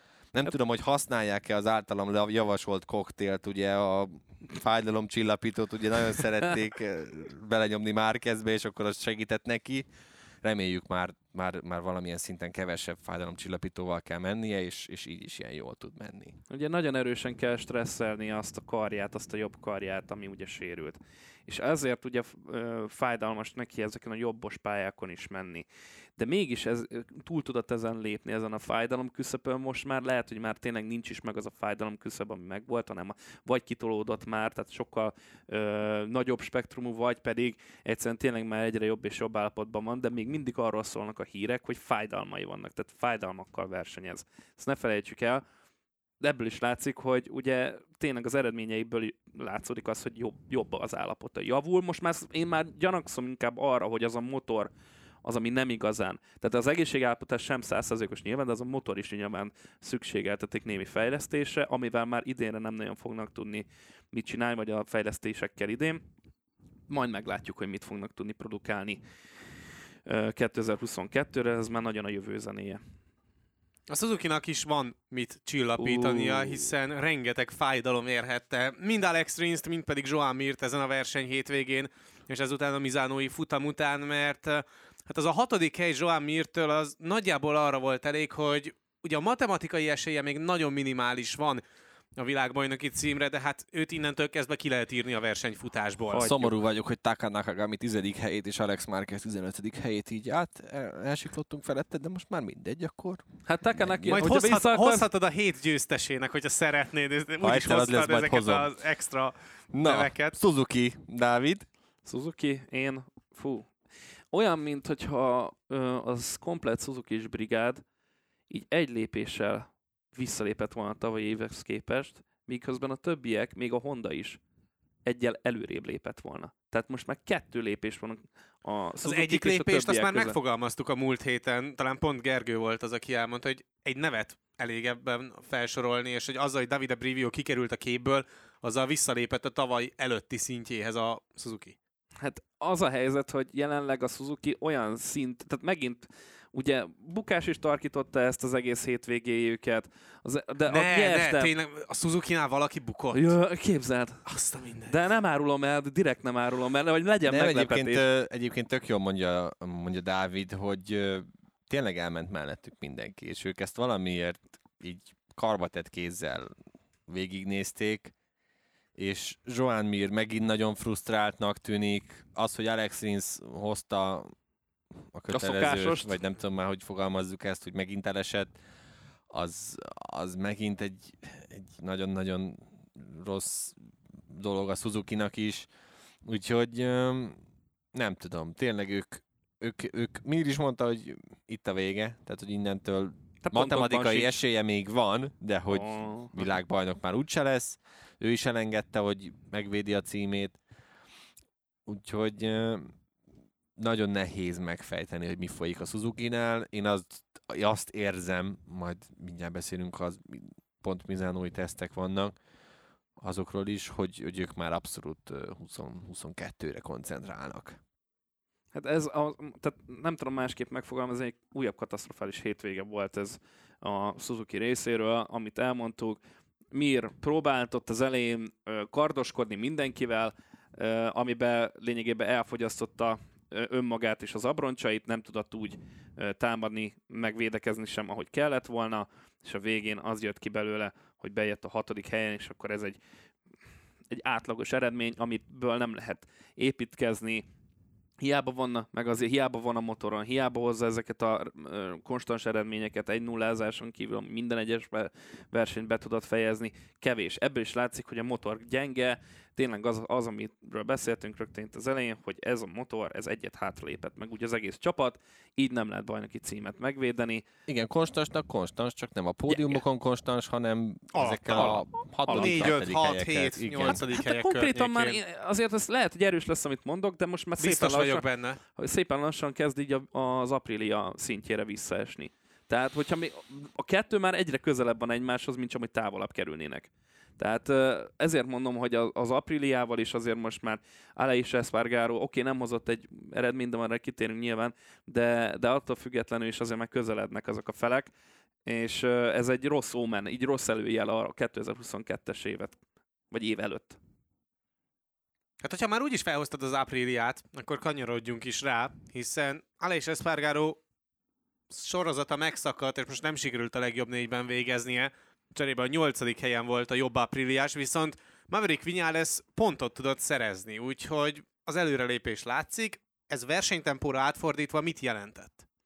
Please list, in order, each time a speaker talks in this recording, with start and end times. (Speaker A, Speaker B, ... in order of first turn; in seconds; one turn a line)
Speaker A: 0.3-9.9
Speaker A: 10.4-16.4
Speaker B: 16.5-45.4
Speaker B: 46.2-54.7
Speaker B: 55.2-66.0
Speaker B: 66.9-69.0
Speaker B: 70.1-72.8
Speaker C: 73.9-91.6
Speaker B: 75.8-76.7
Speaker C: 92.2-96.5
Speaker B: 96.1-96.4
Speaker A: 96.2-104.3
Speaker B: 103.5-105.1
Speaker C: 104.1-110.4
Speaker A: 107.4-108.7
Speaker A: 109.7-111.7
Speaker B: 112.0-113.7
Speaker B: 114.3-117.8
Speaker B: 118.5-124.4
Speaker B: 125.0-130.4
Speaker C: 129.0-141.8
Speaker B: 142.2-151.5
Speaker C: 150.7-153.4
Speaker B: 153.1-154.2
Speaker C: 154.3-155.0
Speaker B: 154.9-158.1
Speaker A: 157.3-166.5
Speaker A: 167.1-168.1
Speaker A: 169.0-174.3
Speaker A: 175.1-178.5
Speaker B: 175.3-176.2
Speaker A: 179.3-183.8
Speaker A: 184.3-185.7
Speaker A: 186.2-187.4
Speaker A: 187.9-200.6
Speaker B: 193.4-194.4
Speaker B: 195.7-196.4
Speaker A: 201.9-202.9
Speaker A: 203.8-212.4
Speaker A: 213.2-217.8
Speaker B: 218.7-226.2
Speaker B: 226.7-243.0
Speaker B: 244.1-247.5
Speaker B: 248.2-267.4
Speaker A: 267.7-274.0
Speaker B: 269.5-269.8
Speaker C: 271.1-275.2
Speaker B: 272.3-272.7
Speaker B: 274.0-298.1
Speaker C: 277.6-278.6
Speaker B: 298.7-302.8
Speaker B: 303.3-304.0
Speaker C: 305.6-310.8
Speaker C: 311.7-325.6